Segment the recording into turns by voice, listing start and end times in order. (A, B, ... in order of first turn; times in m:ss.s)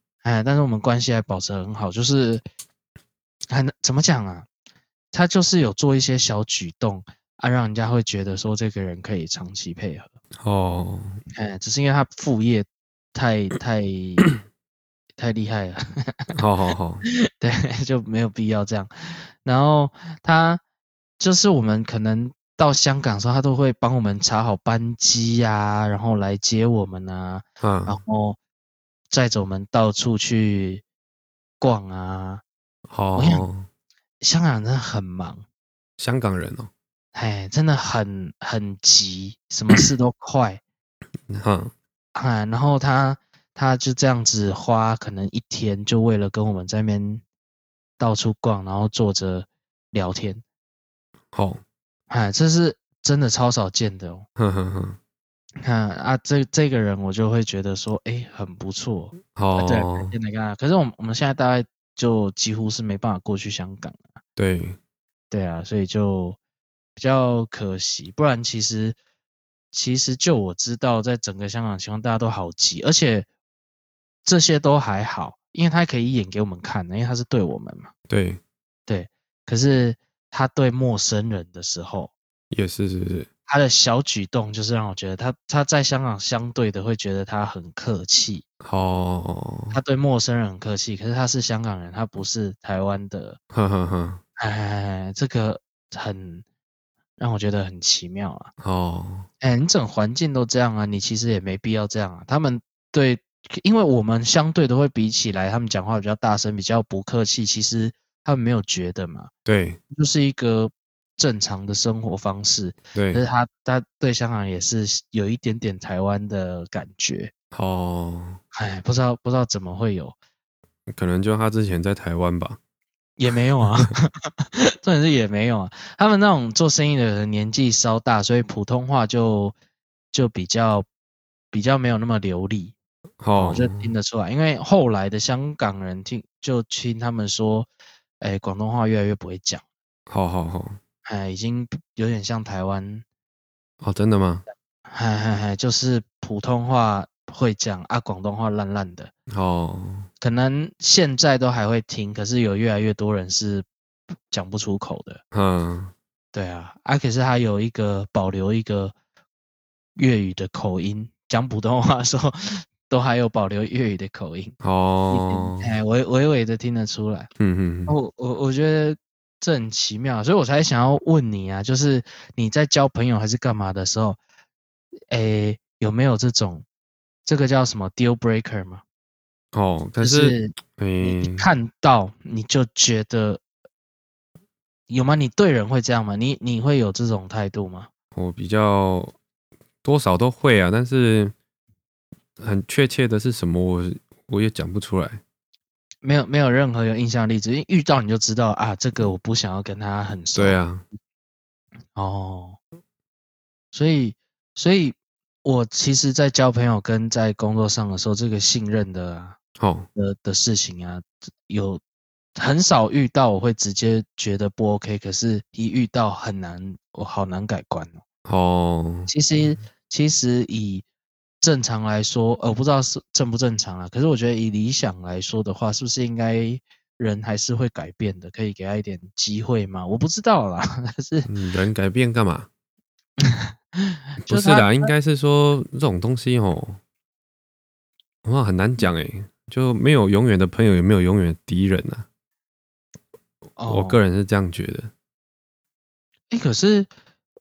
0:00.2-0:02.4 A
0:03.5-0:04.5 A
0:05.1-0:10.1 A
0:10.4-0:11.2 B
0:11.4-0:14.3 A
0:15.2-0:16.3 A
0:16.3-0:17.0 B
0:17.1-0:20.6 A
0:21.2-0:28.4 A
0:27.6-0:28.0 B
0:29.1-0:30.8 A
0:31.6-0:32.4 A
0:32.9-0:33.7 B
0:33.2-0:33.4 A
0:34.2-0:35.4 A
0:36.0-0:36.7 B
0:37.1-0:40.6 A
0:41.3-0:41.7 B
0:42.2-0:47.2 A
0:48.0-0:50.4 A
0:51.3-0:51.6 B
0:52.1-0:54.3 A
0:54.4-0:55.0 B
0:55.6-1:04.0 A
0:59.3-1:00.1 B
1:04.4-1:04.8 B
1:05.3-1:06.4 A
1:07.0-1:09.0 A
1:09.7-1:13.3 A
1:14.2-1:17.9 A
1:18.1-1:18.4 B
1:18.9-1:22.1 A
1:22.5-1:23.3 B
1:23.5-1:28.4 A
1:28.6-1:29.8 B
1:29.7-1:33.4 A
1:33.5-1:34.2 B
1:34.4-1:36.4 A
1:37.2-1:38.5 A
1:38.6-1:39.3 B
1:39.4-1:49.3 A
1:49.5-1:49.8 B
1:49.9-1:57.3 A
1:52.9-1:53.2 B
1:57.5-1:58.4 B
1:58.5-2:00.2 A
2:00.9-2:02.6 B
2:03.2-2:09.6 A
2:10.1-2:10.9 A
2:11.5-2:12.8 A
2:13.2-2:13.9 B
2:13.4-2:17.7 A
2:18.2-2:19.6 A
2:20.1-2:20.8 B
2:21.0-2:23.0 A
2:23.8-2:24.4 B
2:24.9-2:29.1 A
2:29.3-2:30.1 B
2:30.2-2:33.7 A
2:34.3-2:35.2 A
2:35.3-2:35.9 B
2:36.3-2:39.0 A
2:40.0-2:44.6 A
2:44.6-2:45.7 B
2:45.1-2:47.3 A
2:47.4-2:48.0 B
2:47.9-2:54.2 A
2:55.1-2:56.7 A
2:57.2-2:58.8 A
2:59.5-3:01.5 B
3:00.0-3:03.4 A
3:04.9-3:07.9 A
3:08.2-3:09.2 B
3:09.8-3:11.3 B
3:12.4-3:15.2 B
3:16.0-3:20.6 A
3:20.4-3:20.9 B
3:22.0-3:22.6 A
3:23.7-3:29.4 A
3:29.6-3:29.9 B
3:30.0-3:31.8 A
3:32.4-3:38.0 A
3:38.3-3:39.1 B
3:39.1-3:40.9 A
3:41.4-3:51.3 A
3:51.3-3:52.5 B
3:53.2-3:54.9 A
3:54.2-3:56.8 B
3:58.2-4:02.0 B
4:03.6-4:04.0 A
4:03.7-4:04.9 B
4:06.3-4:06.9 A